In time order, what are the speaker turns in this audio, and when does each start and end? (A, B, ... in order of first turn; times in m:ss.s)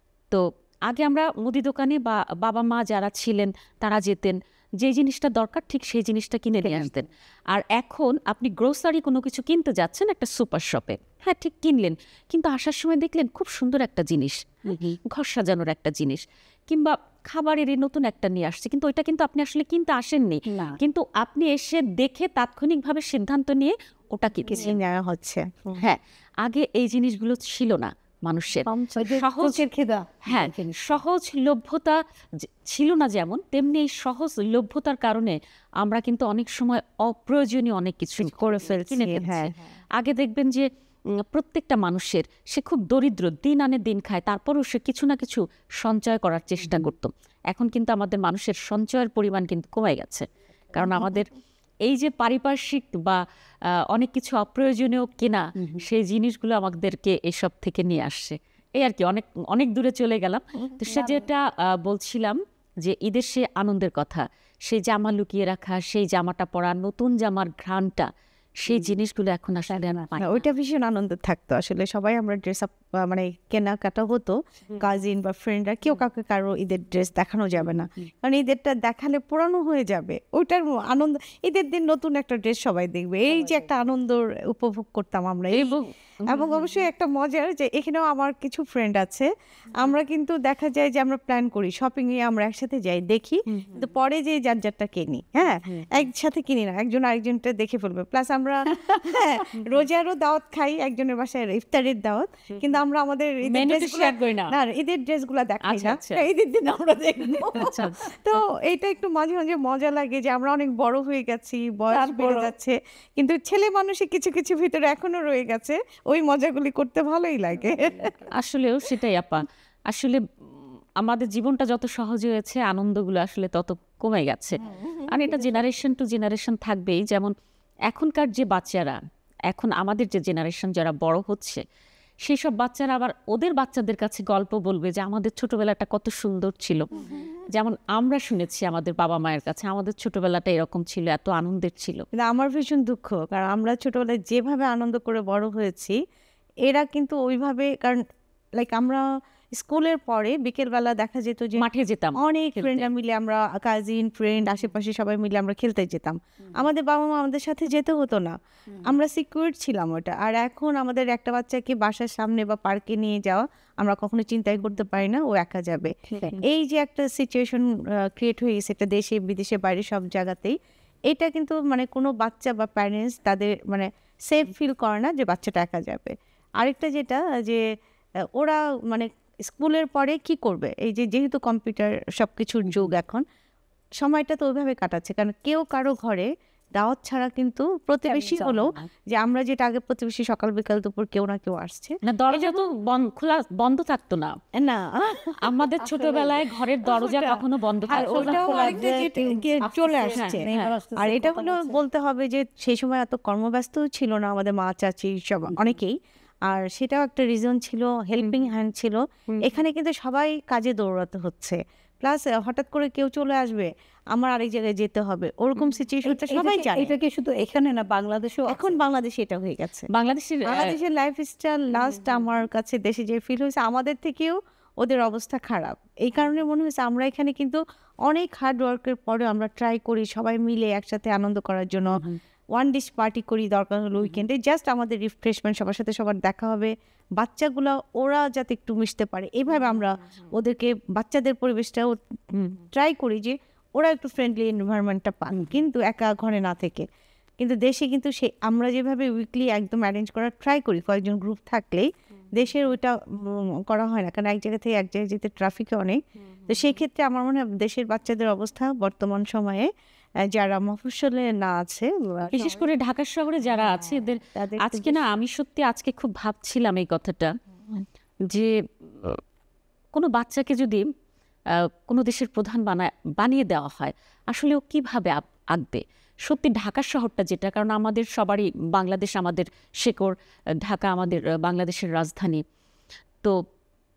0:00.3-0:24.8 A
0:06.6-0:06.9 B
0:14.7-0:15.0 B
0:20.5-0:20.8 B
0:24.5-0:25.9 C
0:25.8-0:29.7 A
0:28.7-0:29.1 C
0:29.0-0:31.0 B
0:30.3-0:51.3 A
0:38.2-0:39.6 C
0:46.6-0:46.9 B
0:50.8-0:51.1 B
0:51.9-0:53.2 A
0:53.9-1:08.1 A
0:55.6-0:55.8 B
1:00.8-1:01.3 B
1:08.6-1:10.5 A
1:09.7-1:10.1 B
1:10.2-1:58.3 C
1:17.7-1:18.1 B
1:25.5-1:26.8 A
1:38.8-1:39.2 B
1:43.4-1:44.6 A
1:45.6-1:46.3 A
1:47.3-1:48.3 A
1:51.9-1:52.5 A
1:58.3-2:00.2 A
2:01.0-2:07.3 A
2:04.8-2:05.3 C
2:07.9-2:11.6 A
2:12.2-2:16.9 A
2:17.5-2:22.0 A
2:22.2-2:26.0 C
2:26.6-2:28.0 C
2:28.6-2:31.6 C
2:31.6-2:32.9 A
2:32.2-2:50.6 C
2:46.1-2:46.4 B
2:51.1-2:57.6 C
2:58.4-3:03.2 C
3:04.0-3:12.6 C
3:08.1-3:08.9 B
3:12.0-3:14.4 A
3:14.6-3:15.5 C
3:15.4-3:18.8 A
3:15.8-3:16.4 B
3:16.8-3:36.9 C
3:17.9-3:21.8 B
3:20.2-3:20.7 A
3:36.0-3:38.8 B
3:38.5-3:39.9 C
3:39.9-3:40.8 A
3:40.5-3:52.0 C
3:51.9-3:52.2 B
3:52.6-4:06.9 C
4:05.3-4:05.6 B
4:07.4-4:19.7 C
4:20.3-4:22.7 C
4:22.3-4:27.3 A
4:24.4-4:25.0 C
4:28.2-4:29.2 A
4:29.9-4:30.8 A
4:31.5-4:42.4 A